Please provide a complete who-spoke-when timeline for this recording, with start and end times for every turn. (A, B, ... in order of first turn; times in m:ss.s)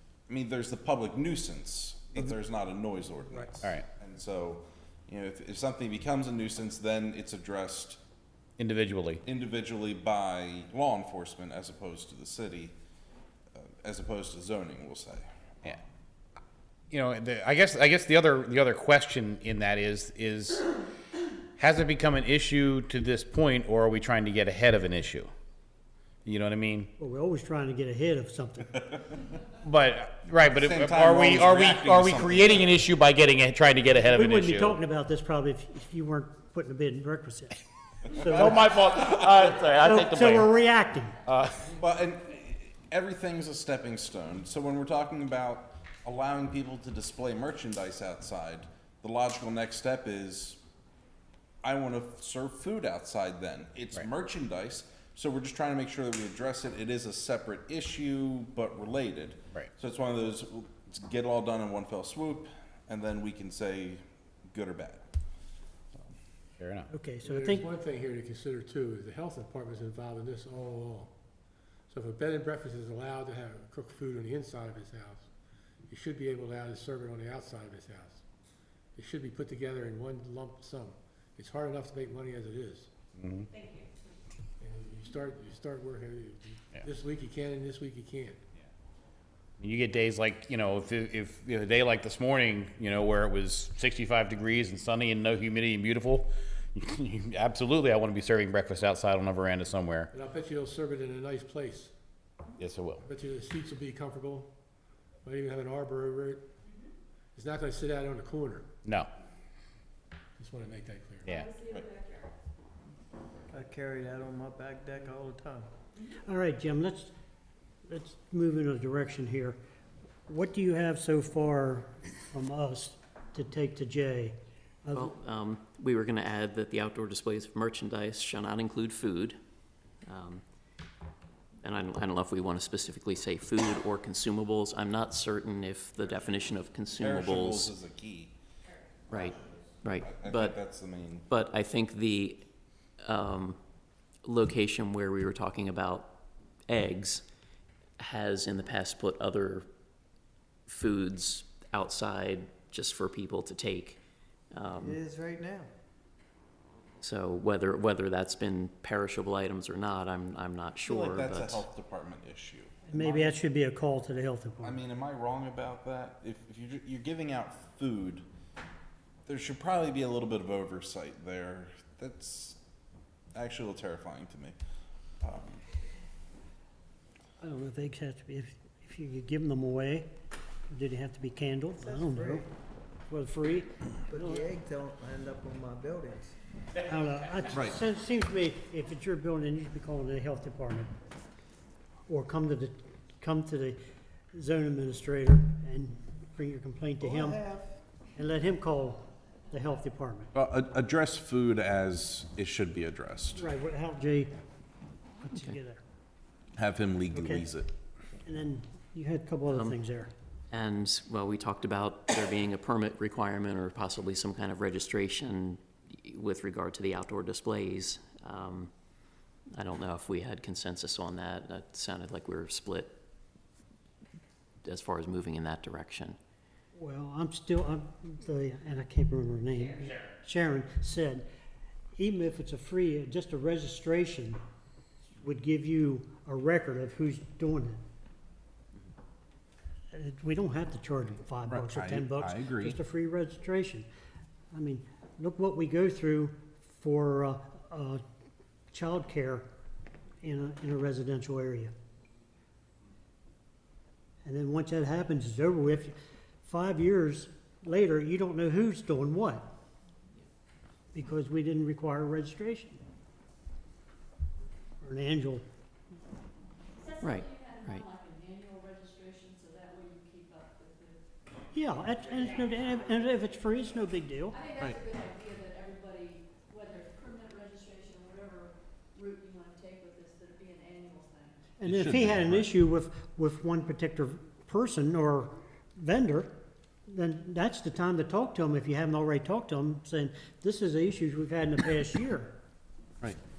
0:00.3-0:08.0 A
0:08.6-0:09.2 B
0:09.2-0:12.7 A
0:13.5-0:15.3 A
0:16.9-0:20.7 B
0:21.6-0:25.3 B
0:26.2-0:26.9 B
0:27.0-0:28.8 C
0:29.6-0:34.8 B
0:30.5-0:32.8 A
0:34.0-0:38.6 C
0:38.3-0:40.5 B
0:39.8-0:41.2 C
0:41.2-0:41.7 B
0:41.7-0:50.6 A
0:51.6-1:05.1 A
1:06.6-1:06.9 B
1:06.9-1:07.7 C
1:07.2-1:11.1 D
1:11.9-1:15.3 D
1:15.9-1:18.2 D
1:19.0-1:22.9 D
1:23.2-1:23.5 B
1:23.5-1:23.9 E
1:24.6-1:28.4 D
1:29.6-1:40.1 B
1:40.1-1:41.9 D
1:42.6-1:43.0 B
1:43.0-1:44.5 D
1:45.2-1:46.4 D
1:47.3-1:48.6 D
1:48.8-1:49.1 B
1:50.4-1:51.3 D
1:51.2-1:51.6 B
1:51.3-1:52.2 E
1:53.5-1:55.7 F
1:56.2-1:57.1 C
1:57.8-1:59.6 C
2:00.3-2:05.1 C
2:04.9-2:09.4 G
2:10.0-2:10.4 G
2:11.6-2:17.7 G
2:16.9-2:18.3 A
2:19.1-2:20.6 G
2:19.9-2:21.3 A
2:21.3-2:22.4 G
2:23.0-2:23.6 G
2:24.2-2:27.2 G
2:28.0-2:29.7 G
2:30.7-2:34.0 G
2:34.5-2:35.0 G
2:34.7-2:35.7 F
2:37.0-2:41.6 G
2:40.8-2:43.3 A
2:42.9-2:44.8 C
2:44.6-2:48.2 A
2:49.3-2:52.6 A
2:53.3-2:54.6 A
2:55.2-2:55.6 A
2:57.4-3:00.1 C
3:00.7-3:02.5 C
3:01.8-3:02.4 F
3:03.1-3:04.5 C
3:04.1-3:06.3 F
3:06.8-3:10.9 C
3:12.1-3:13.8 C
3:14.3-3:17.4 C
3:17.0-3:17.7 F
3:18.2-3:20.3 C
3:20.3-3:23.5 A
3:23.3-3:24.3 C
3:25.2-3:25.8 C
3:26.5-3:27.7 A
3:27.1-3:27.4 C
3:28.2-3:30.1 C
3:29.5-3:29.8 G
3:30.5-3:38.7 G
3:39.5-3:43.0 G
3:44.6-3:46.2 G
3:46.8-3:51.2 C
3:52.0-3:54.4 C
3:55.2-3:57.8 C
3:59.9-4:03.9 C
4:01.5-4:02.8 A
4:04.5-4:08.0 C
4:08.7-4:09.5 C
4:10.2-4:11.7 C
4:14.2-4:19.5 C
4:20.9-4:22.8 C
4:24.8-4:25.4 C
4:26.8-4:30.9 E
4:27.0-4:27.9 G
4:31.5-4:34.4 C
4:34.4-4:41.3 E
4:41.6-4:46.3 C
4:41.6-4:42.5 A
4:46.9-4:52.4 C